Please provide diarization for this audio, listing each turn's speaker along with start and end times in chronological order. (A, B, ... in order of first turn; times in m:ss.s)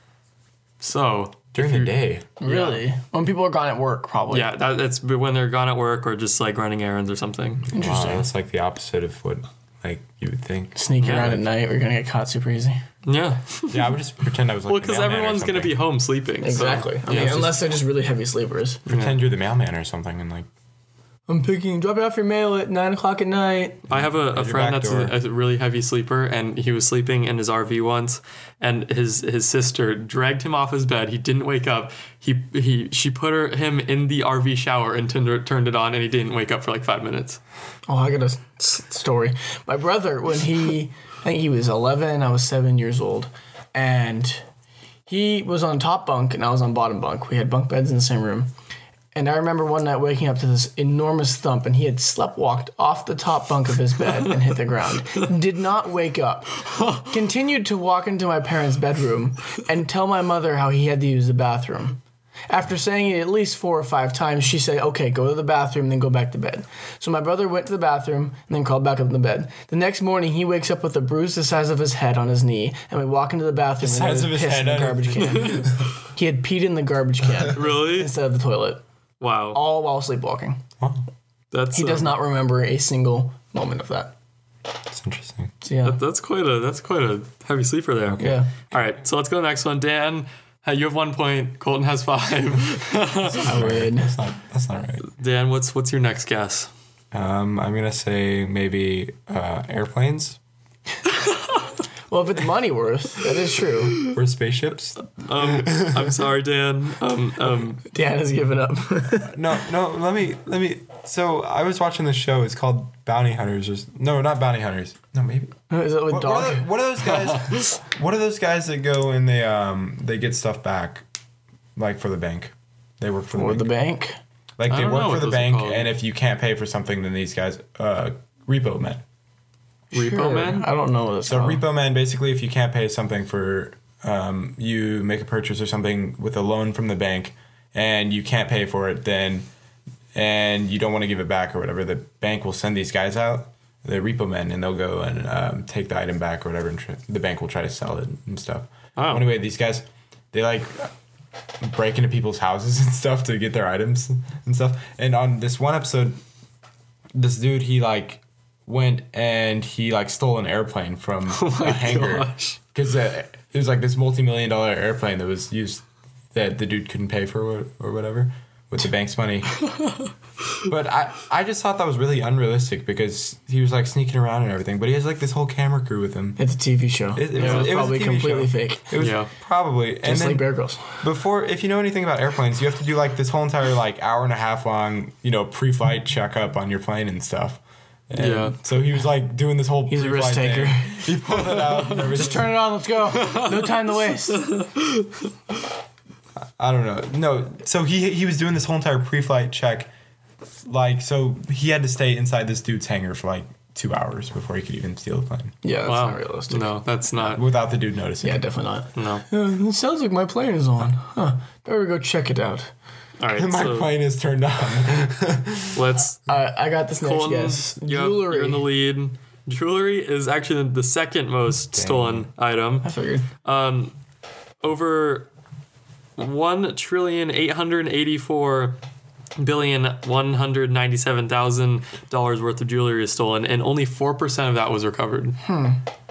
0:00.8-0:02.8 A
0:01.5-0:02.3 B
0:02.4-0:04.5 C
0:04.3-0:07.6 A
0:07.6-0:11.4 B
0:07.7-0:08.3 C
0:10.8-0:12.8 C
0:11.0-0:11.3 A
0:13.0-0:13.9 A
0:13.7-0:15.8 B
0:14.7-0:17.6 A
0:16.4-0:18.8 C
0:18.9-0:19.2 A
0:18.9-0:20.5 B
0:21.3-0:23.9 C
0:23.9-0:25.1 B
0:23.9-0:37.4 A
0:37.9-0:44.4 C
0:45.1-0:48.5 C
0:49.1-1:18.8 C
0:56.8-0:57.1 A
1:13.8-1:15.6 B
1:15.2-1:15.7 A
1:17.5-1:18.1 A
1:19.2-1:19.6 A
1:19.5-1:20.6 C
1:21.5-1:22.2 A
1:21.7-1:24.1 C
1:24.9-1:25.5 B
1:25.6-1:26.0 C
1:25.8-1:33.5 A
1:28.1-1:28.7 B
1:28.2-1:28.5 C
1:33.4-1:34.1 C
1:33.4-1:35.0 B
1:35.1-1:36.7 A
1:37.1-1:40.4 B
1:42.1-1:44.0 C
1:44.0-1:46.2 B
1:45.1-1:47.8 A
1:47.8-1:49.3 C
1:49.1-1:55.6 B
1:55.7-1:56.7 C
1:56.1-2:01.0 B
1:57.1-1:57.7 A
2:01.8-2:03.7 B
2:03.3-2:04.2 C
2:04.6-2:09.0 B
2:04.7-2:05.9 A
2:09.9-2:11.6 C
2:09.9-2:10.7 A
2:11.3-2:19.5 B
2:20.1-2:30.9 B
2:29.0-2:29.2 A
2:31.6-2:36.2 B
2:37.1-2:49.6 B
2:41.3-2:42.6 A
2:49.7-2:50.0 A
2:50.6-2:56.4 B
2:56.4-2:58.9 C
2:57.1-3:12.6 B
2:57.4-2:57.7 A
2:59.0-2:59.3 A
3:00.0-3:01.0 C
3:08.2-3:08.6 A
3:09.9-3:11.1 C
3:11.5-3:12.1 A
3:11.9-3:14.5 C
3:13.1-3:15.3 A
3:16.6-3:19.9 B
3:20.6-3:25.5 B
3:25.6-3:26.8 C
3:25.8-3:27.4 A
3:27.2-3:28.4 B
3:28.2-3:32.7 C
3:29.0-3:29.2 A
3:33.2-3:33.9 A
3:33.3-3:35.9 B
3:35.7-3:36.3 A
3:36.3-3:38.7 C
3:37.0-3:42.9 A
3:41.7-3:42.3 B
3:42.8-3:43.2 C
3:43.4-3:43.9 A
3:44.6-3:45.3 A
3:46.2-3:48.8 A
3:49.4-3:55.4 A
3:55.4-3:55.8 C